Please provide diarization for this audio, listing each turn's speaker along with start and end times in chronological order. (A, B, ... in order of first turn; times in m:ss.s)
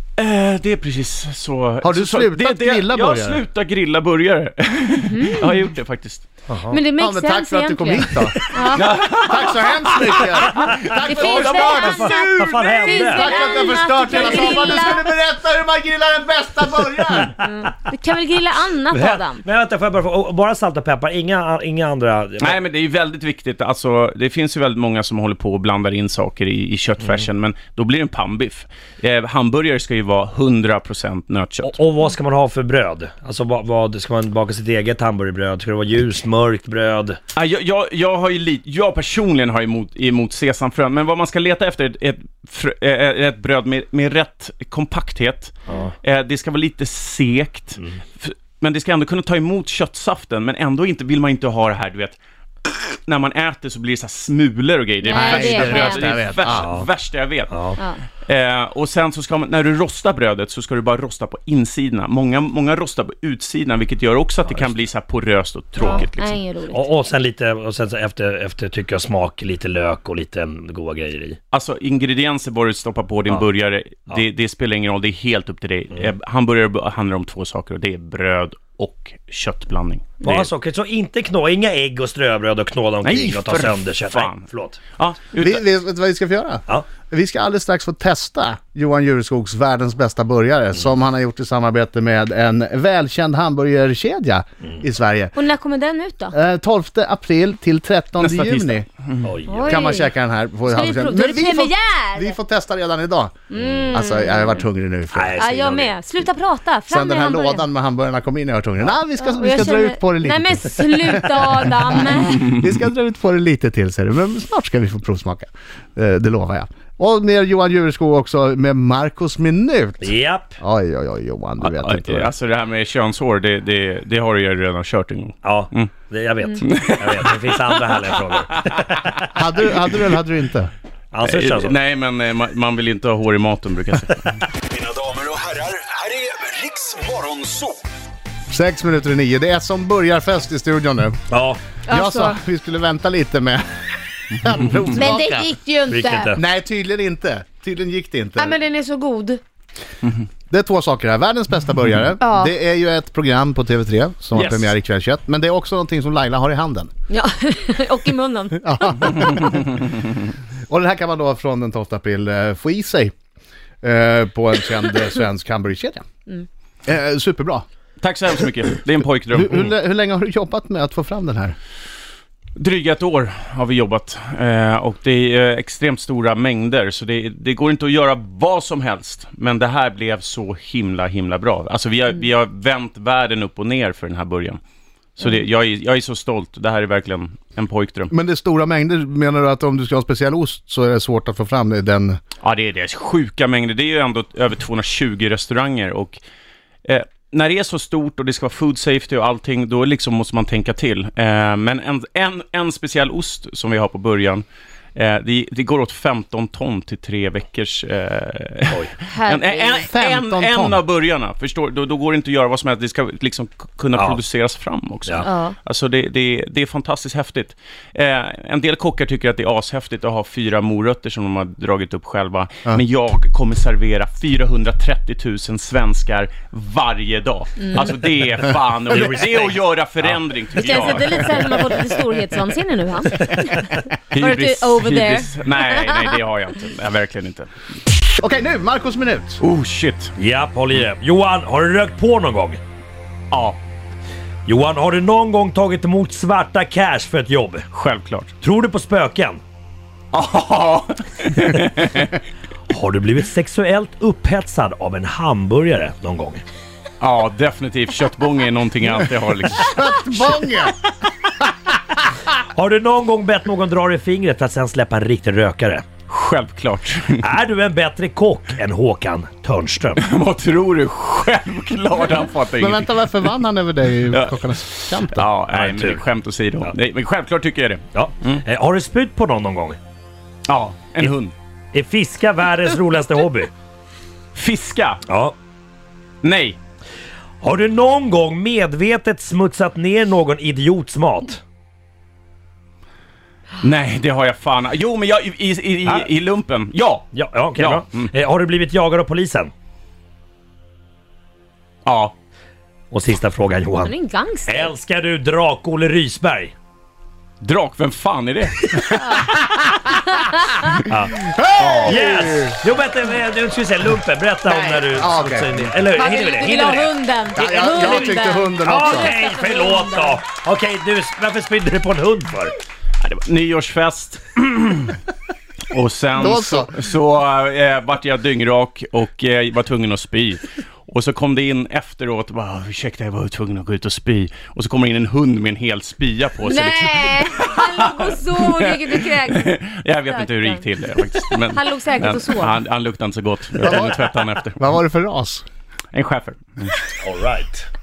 0:00.2-0:06.3 A
0:01.8-0:03.4 B
0:05.1-0:05.7 C
0:06.5-0:06.8 D
0:06.7-0:08.9 C
0:07.0-0:11.9 B
0:08.7-0:12.9 A
0:11.0-0:15.1 C
0:11.7-0:13.4 D
0:13.0-0:17.4 B
0:17.4-0:19.4 C
0:18.9-0:22.6 D
0:22.4-0:31.8 A
0:27.0-0:27.2 D
0:31.6-0:37.2 D
0:37.3-0:57.6 A
0:45.7-0:45.9 D
0:55.0-0:56.1 C
0:55.1-0:56.7 B
0:56.5-0:56.9 D
0:57.5-0:57.8 D
0:58.2-1:06.4 A
1:05.8-1:06.9 C
1:06.7-1:11.4 D
1:11.5-1:20.5 A
1:20.2-1:24.8 D
1:23.0-1:24.4 A
1:25.0-1:25.6 A
1:25.4-1:35.3 B
1:35.4-1:36.3 C
1:36.3-1:38.9 B
1:38.2-1:39.4 A
1:39.2-1:39.9 D
1:39.5-1:40.1 C
1:39.7-1:43.4 B
1:40.7-1:42.4 C
1:43.5-1:43.9 D
1:43.5-1:44.6 C
1:43.9-1:45.4 B
1:45.1-1:45.9 D
1:45.4-1:47.7 C
1:46.9-2:02.3 B
1:49.2-1:52.5 C
2:00.0-2:00.6 D
2:01.6-2:05.9 A
2:05.4-2:09.0 D
2:06.6-2:07.3 A
2:08.8-2:09.3 A
2:09.3-2:10.7 B
2:11.1-2:11.8 D
2:11.2-2:14.5 A
2:14.8-2:17.8 E
2:18.5-2:21.2 B
2:21.3-2:21.6 D
2:21.9-2:22.4 C
2:21.9-2:23.6 B
2:24.3-2:25.5 B
2:24.9-2:26.4 C
2:25.9-2:26.4 D
2:26.4-2:28.6 B
2:28.4-2:29.4 C
2:30.5-2:36.9 B
2:32.2-2:32.5 C
2:34.4-2:34.7 A
2:37.1-2:39.6 C
2:38.6-2:39.6 B
2:40.7-2:43.1 B
2:43.8-2:46.0 B
2:46.9-2:47.6 B
2:48.0-2:49.7 A
2:49.3-2:51.6 B
2:52.6-3:04.6 A
3:05.2-3:08.1 A
3:08.1-3:12.2 B
3:12.4-3:16.2 A
3:16.8-3:24.4 A
3:25.0-3:51.7 A
3:29.1-3:29.9 C
3:29.9-3:30.8 B
3:34.0-3:34.2 D
3:35.2-3:35.6 C
3:47.6-3:47.9 C
3:48.9-3:50.2 D
3:50.6-3:56.2 C
3:50.7-3:51.7 D
3:54.1-3:57.5 A
3:58.2-3:59.4 B
3:59.4-4:00.1 A
4:00.2-4:02.6 D
4:03.3-4:03.6 A
4:04.5-4:07.7 D
4:07.7-4:08.3 A
4:08.4-4:09.4 D
4:10.1-4:12.2 A
4:12.7-4:16.4 D
4:17.0-4:20.0 A
4:19.6-4:20.8 B
4:22.5-4:25.9 D
4:26.1-4:27.2 A
4:27.2-4:30.0 D
4:30.0-4:33.3 A
4:32.6-4:35.3 B
4:34.1-4:38.4 A
4:35.5-4:36.0 D
4:37.9-4:39.8 D
4:40.5-4:41.3 A
4:41.7-4:43.5 D
4:44.4-4:45.0 A
4:45.1-4:45.4 D
4:46.2-4:46.6 A
4:47.4-4:51.4 D
4:53.6-4:58.1 A
4:55.8-4:56.1 D
4:57.1-4:59.5 D
5:01.8-5:02.1 A
5:02.9-5:03.9 D
5:03.8-5:04.7 C
5:04.5-5:06.5 D
5:07.4-5:08.9 A
5:08.9-5:10.7 C
5:10.9-5:16.9 D
5:11.2-5:12.6 B
5:11.6-5:12.0 A
5:14.5-5:15.7 B
5:15.9-5:20.2 C
5:17.4-5:19.1 B
5:17.8-5:18.1 D
5:18.6-5:22.6 D
5:23.0-5:25.0 A
5:25.7-5:44.6 A
5:26.2-5:26.7 B
5:36.4-5:42.6 C
5:43.6-5:44.0 B
5:44.6-5:45.4 B
5:45.9-5:46.7 A
5:47.0-5:47.7 D